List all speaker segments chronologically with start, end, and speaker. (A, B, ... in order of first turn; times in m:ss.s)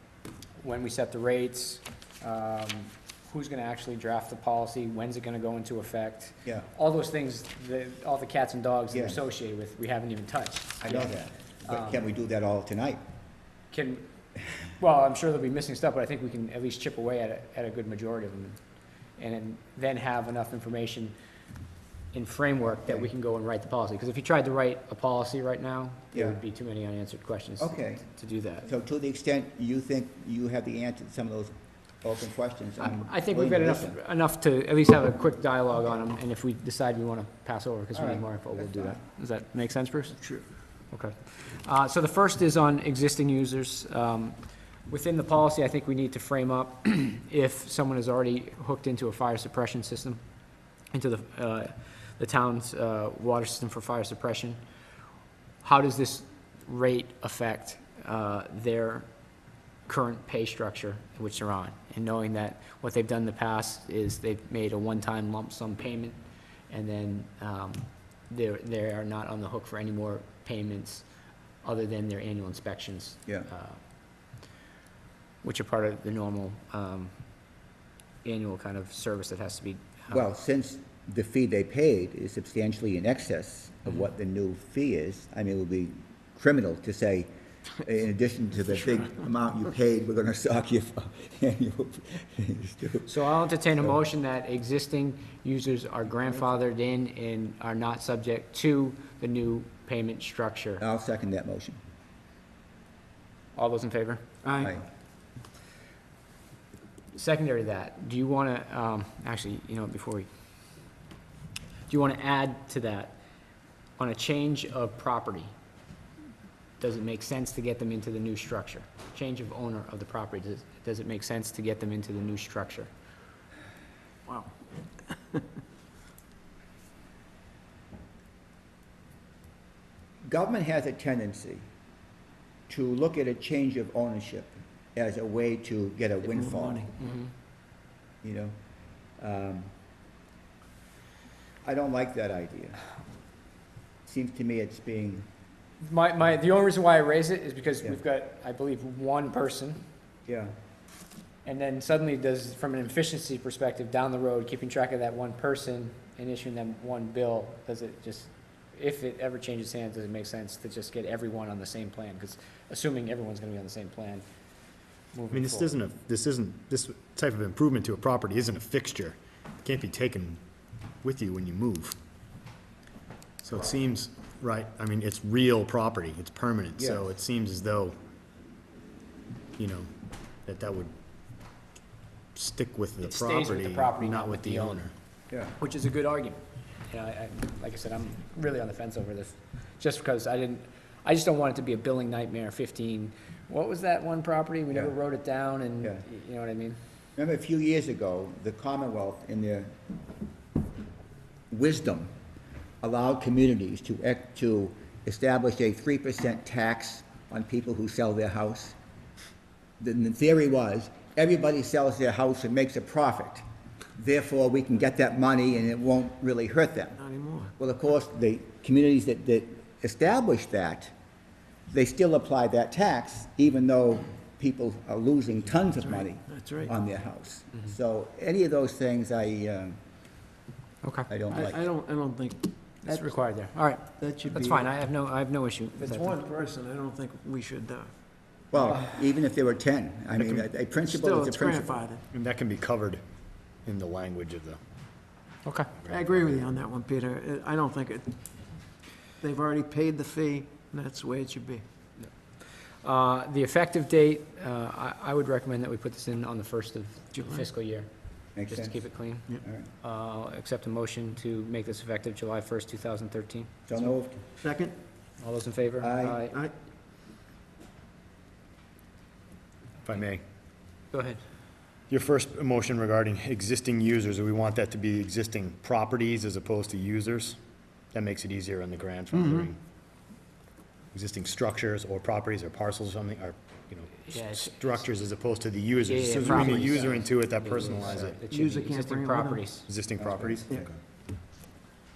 0:00.6-0:12.0 A
0:08.9-0:09.2 B
0:10.8-0:13.0 B
0:13.7-0:14.0 A
0:14.8-0:18.6 A
0:19.2-0:21.1 A
0:22.1-0:28.6 A
0:22.8-0:23.1 B
0:26.1-0:26.4 B
0:27.6-0:28.0 B
0:28.6-0:34.0 B
0:32.8-0:40.2 A
0:37.9-0:39.0 B
0:40.9-0:44.4 A
0:44.9-0:50.2 A
0:50.9-0:54.6 A
0:55.6-0:59.1 A
0:59.8-1:06.2 A
1:06.7-1:11.0 A
1:11.6-1:13.8 A
1:15.4-1:17.1 A
1:18.2-1:20.2 A
1:20.1-1:27.3 B
1:27.8-1:33.2 B
1:33.0-1:40.8 A
1:40.8-1:41.8 B
1:43.5-1:44.3 A
1:44.4-1:44.7 C
1:44.6-1:44.8 B
1:47.1-1:50.3 A
1:51.9-1:53.2 A
1:54.0-1:55.5 A
1:56.8-2:02.9 A
2:04.3-2:05.4 C
2:10.2-2:11.6 B
2:12.7-2:16.9 B
2:16.2-2:17.0 C
2:18.2-2:18.5 B
2:19.2-2:19.7 B
2:21.6-2:22.8 B
2:24.0-2:25.3 B
2:25.8-2:29.8 A
2:30.3-2:30.5 B
2:31.4-2:44.2 A
2:45.1-2:45.8 A
2:45.3-2:50.4 D
2:51.0-2:52.0 D
2:53.4-2:58.0 D
2:56.8-2:57.0 B
2:59.6-2:59.9 D
3:00.4-3:00.9 D
3:02.3-3:04.9 D
3:03.0-3:04.9 A
3:05.6-3:16.8 A
3:17.2-3:19.7 B
3:21.5-3:22.1 B
3:22.8-3:28.8 B
3:29.8-3:33.4 B
3:34.0-3:37.0 B
3:37.0-3:37.5 C
3:37.6-3:40.9 B
3:41.7-3:49.8 B
3:45.8-3:46.7 C
3:50.8-3:51.1 A
3:51.1-3:51.6 B
3:51.3-3:53.1 C
3:52.8-3:56.2 A
3:54.0-3:54.7 C
3:55.8-3:58.0 C
3:58.5-4:01.8 B
4:00.2-4:00.5 D
4:00.8-4:02.0 C
4:02.1-4:03.0 D
4:03.6-4:04.6 D
4:05.4-4:05.7 A
4:05.8-4:06.4 D
4:05.9-4:08.3 C
4:09.2-4:11.6 C
4:12.8-4:23.5 A
4:17.1-4:17.4 C
4:18.3-4:18.7 B
4:19.4-4:19.7 B
4:23.7-4:24.2 B
4:24.4-4:24.8 C
4:25.2-4:26.4 A
4:25.8-4:26.2 B
4:29.8-4:30.2 D
4:30.9-4:31.2 A
4:31.9-4:37.4 D
4:37.9-4:39.6 D
4:39.1-4:39.5 C
4:40.9-4:48.2 D
4:44.1-4:44.8 A
4:45.8-4:49.7 A
4:48.3-4:49.4 C
4:49.7-4:50.8 D
4:50.0-4:50.6 B